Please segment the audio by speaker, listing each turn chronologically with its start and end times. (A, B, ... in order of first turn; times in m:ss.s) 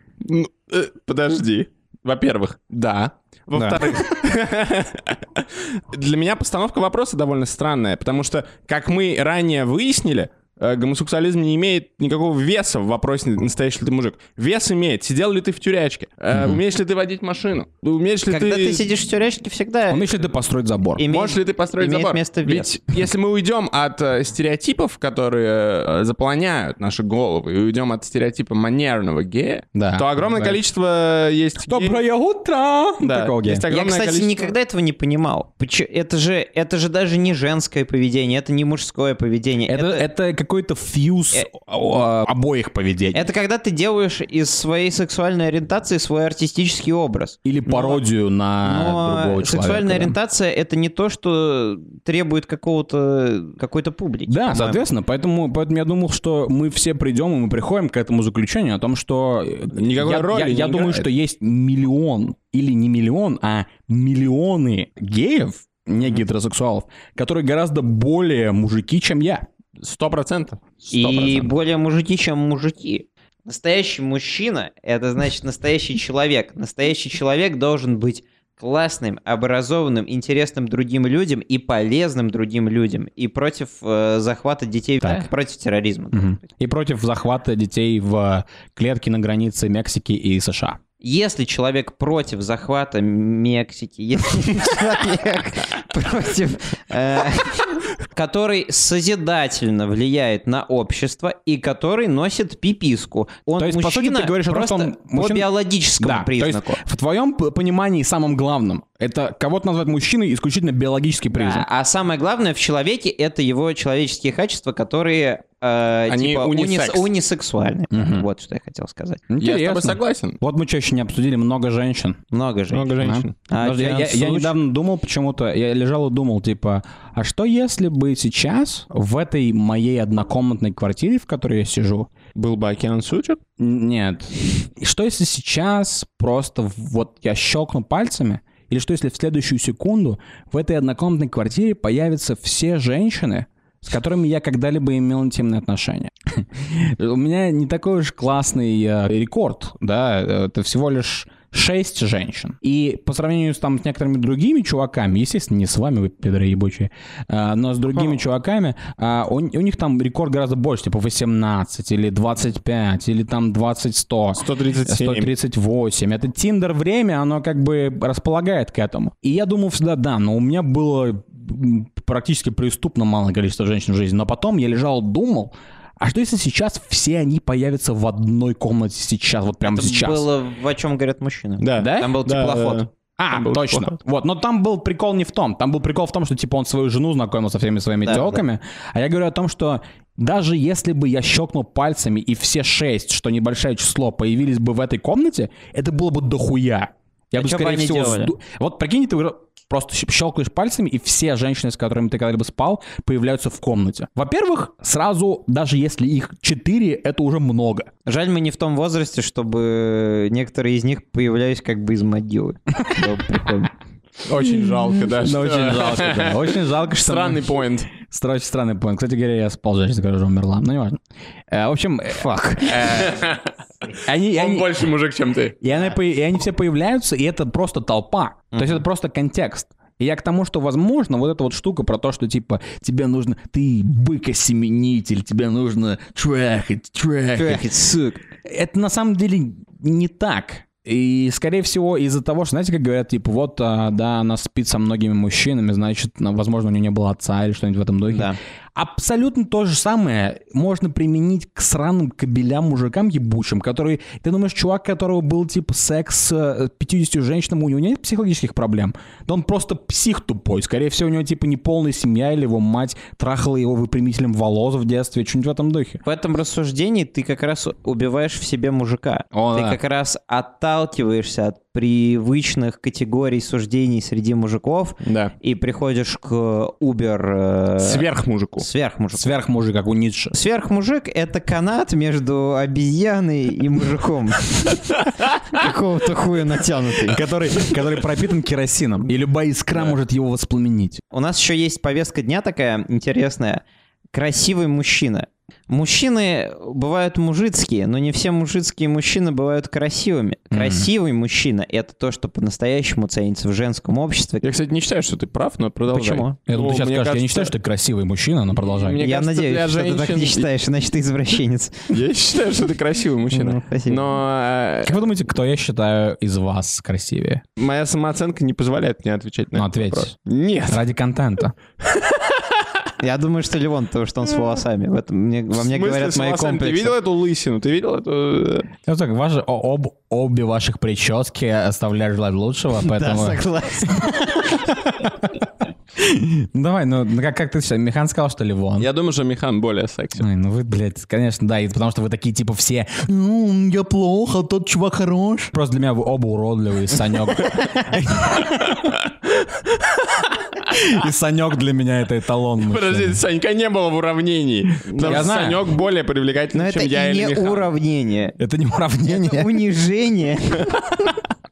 0:00.2-0:18.8 A
0:03.5-0:03.8 B
0:16.3-0:16.6 C
0:18.2-0:20.0 B
0:19.9-0:21.0 C
0:21.0-0:22.7 B
0:21.1-0:32.0 A
0:29.7-0:30.6 C
0:31.6-0:33.7 C
0:33.0-0:34.5 A
0:33.6-0:40.1 B
0:39.7-0:43.2 C
0:43.1-0:48.0 B
0:47.4-0:50.2 C
0:48.6-0:54.8 B
0:54.3-1:09.5 C
0:59.7-1:01.1 A
1:09.8-1:11.4 A
1:10.9-1:26.4 B
1:25.0-1:25.3 C
1:26.1-1:30.8 C
1:31.0-1:46.8 B
1:43.6-1:51.6 C
1:51.3-1:59.3 B
1:56.1-1:57.1 A
1:57.9-1:58.2 C
1:59.3-2:02.2 C
1:59.4-2:00.4 A
2:02.3-2:03.0 B
2:02.7-2:03.3 A
2:03.0-2:12.1 C
2:03.5-2:04.5 B
2:12.3-2:13.4 A
2:13.6-3:00.3 C
2:44.4-2:45.3 A
2:59.6-3:02.9 B
3:01.6-3:04.0 A
3:01.8-3:02.1 C
3:03.2-3:27.9 C
3:08.0-3:08.4 B
3:17.3-3:18.3 B
3:28.0-3:33.7 B
3:34.2-3:37.9 A
3:35.1-3:41.0 C
3:41.5-3:43.2 C
3:42.7-3:45.6 A
3:44.0-3:44.9 C
3:45.6-3:57.7 C
3:48.5-3:48.8 B
3:57.3-3:58.2 B
3:58.4-4:26.0 C
4:08.1-4:08.4 B
4:26.0-4:38.0 B
4:29.3-4:29.8 C
4:35.0-4:35.3 A
4:37.8-4:38.7 A
4:38.6-4:39.3 B
4:39.1-4:40.3 C
4:40.3-4:47.2 B
4:47.1-4:51.0 C
4:51.1-5:04.5 B
5:00.5-5:00.8 C
5:04.4-5:07.5 A
5:05.9-5:06.4 B
5:06.5-5:09.0 C
5:08.6-5:10.4 A
5:09.0-5:11.9 B
5:11.9-5:15.0 A
5:13.3-5:14.2 B
5:14.8-5:17.4 C
5:17.6-5:20.8 A
5:19.5-5:20.1 C
5:20.7-5:21.5 C
5:23.0-5:27.0 B
5:25.5-5:28.7 A
5:28.8-5:35.1 C
5:32.8-5:34.7 B
5:36.0-5:38.9 C
5:38.8-5:40.3 A
5:40.2-5:48.9 C
5:50.6-5:53.2 C
5:52.6-5:57.7 A
5:54.9-5:55.3 B
5:55.0-5:55.6 C
5:56.5-5:58.4 B
5:58.4-5:59.6 C
5:59.1-6:01.1 B